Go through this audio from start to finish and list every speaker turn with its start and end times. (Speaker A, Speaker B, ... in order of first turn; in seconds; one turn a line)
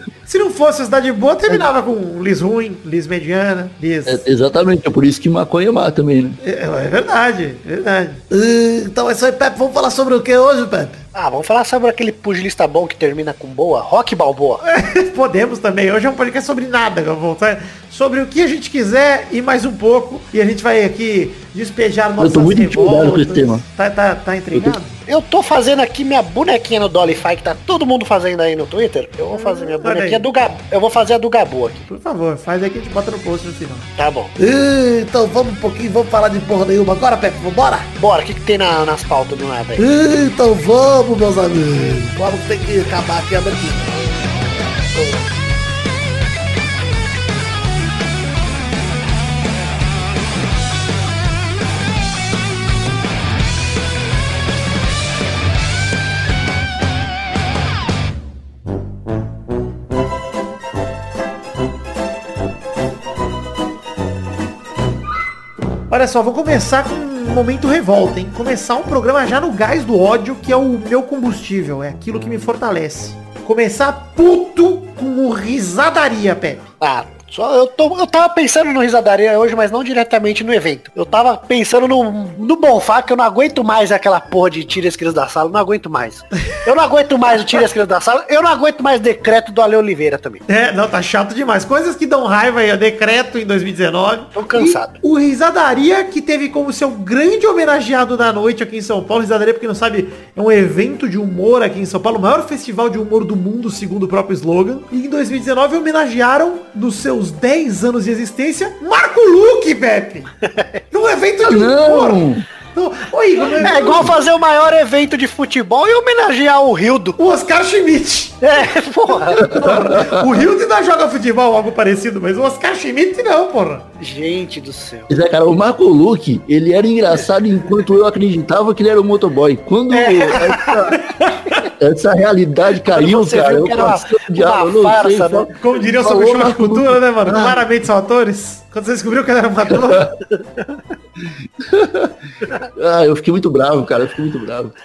Speaker A: 0.3-4.2
Speaker B: 4.1-6.4
Speaker A: 6.4-8.2
Speaker C: 8.3-11.0
Speaker D: 11.2-14.6
Speaker A: 14.6-25.0
Speaker B: 22.2-23.6
Speaker D: 25.1-31.9
Speaker A: 29.3-30.3
Speaker A: 31.9-33.9
Speaker D: 34.0-34.3
Speaker C: 34.4-37.9
Speaker D: 38.0-39.8
Speaker C: 39.8-45.2
Speaker A: 65.9-76.6
Speaker D: 76.8-90.4
Speaker A: 90.5-110.3
Speaker D: 94.3-94.9
Speaker D: 110.5-110.8
Speaker A: 110.9-112.2
Speaker B: 111.4-112.5
Speaker A: 112.7-114.1
Speaker D: 113.6-117.2
Speaker B: 113.7-114.1
Speaker A: 117.2-118.4
Speaker D: 118.4-119.6
Speaker A: 119.3-123.9
Speaker B: 119.4-120.4
Speaker D: 124.0-125.1
Speaker B: 125.1-131.0
Speaker D: 129.9-131.0
Speaker A: 131.0-131.6
Speaker B: 131.8-137.6
Speaker D: 132.8-135.5
Speaker A: 135.6-140.1
Speaker B: 139.7-140.1
Speaker D: 140.3-140.8
Speaker B: 141.2-142.1
Speaker B: 142.7-144.7